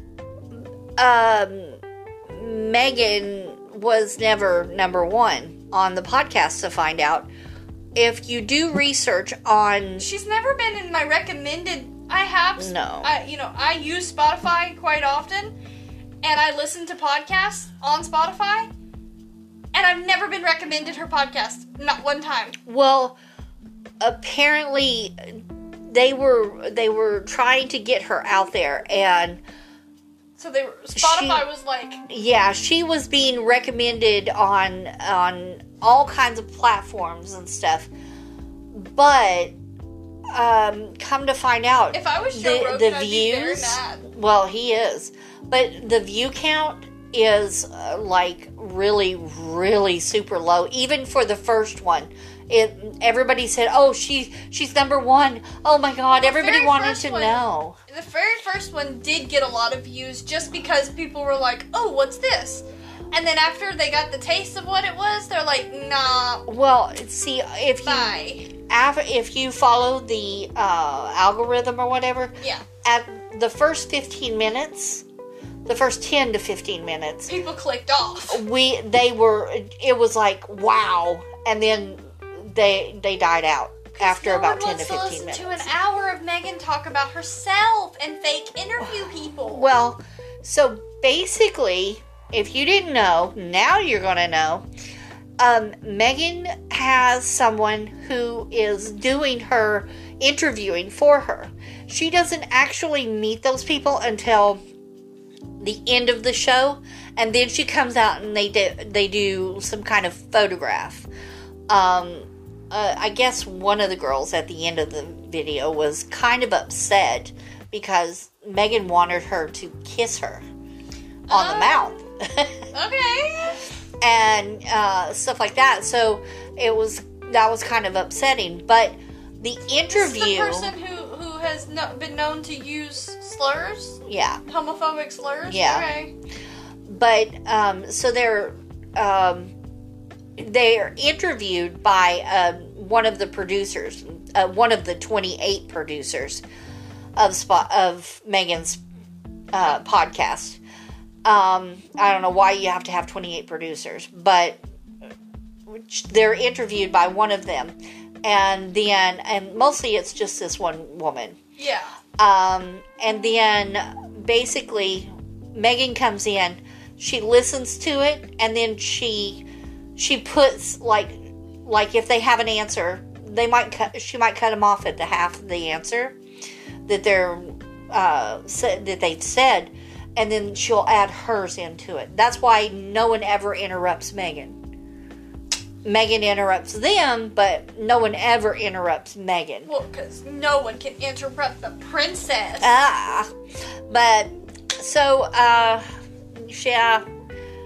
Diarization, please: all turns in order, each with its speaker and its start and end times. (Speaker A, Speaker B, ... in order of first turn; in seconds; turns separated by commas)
Speaker A: 0.5-7.3, Speaker A: 7.9-10.1, Speaker B: 10.0-15.5, Speaker A: 12.6-13.1, Speaker B: 16.2-18.7, Speaker B: 19.7-22.6, Speaker A: 22.6-23.2, Speaker A: 24.0-29.4, Speaker B: 30.4-32.0, Speaker A: 30.9-31.4, Speaker A: 32.1-37.9, Speaker A: 38.7-39.5, Speaker A: 40.3-57.8, Speaker B: 41.9-44.1, Speaker B: 56.1-66.5, Speaker A: 66.5-75.0, Speaker B: 67.8-68.5, Speaker A: 75.7-77.3, Speaker B: 77.3-78.4, Speaker A: 78.3-85.7, Speaker B: 83.9-89.7, Speaker A: 89.5-94.7, Speaker A: 95.4-104.6, Speaker A: 105.6-111.1, Speaker A: 111.7-120.4, Speaker B: 121.3-122.0, Speaker A: 121.3-122.6, Speaker B: 122.7-123.6, Speaker A: 124.0-130.7, Speaker B: 129.9-136.1, Speaker A: 134.0-134.4, Speaker A: 135.5-135.8, Speaker A: 136.8-139.5, Speaker A: 140.4-146.4, Speaker A: 147.2-148.8, Speaker A: 149.5-150.6, Speaker A: 151.2-154.6, Speaker A: 155.7-161.4, Speaker B: 161.6-161.9, Speaker A: 162.2-169.4, Speaker A: 169.9-176.2, Speaker A: 176.9-184.6, Speaker A: 185.8-189.7, Speaker B: 189.7-192.7, Speaker A: 192.6-193.3, Speaker A: 193.9-195.8, Speaker A: 196.3-197.0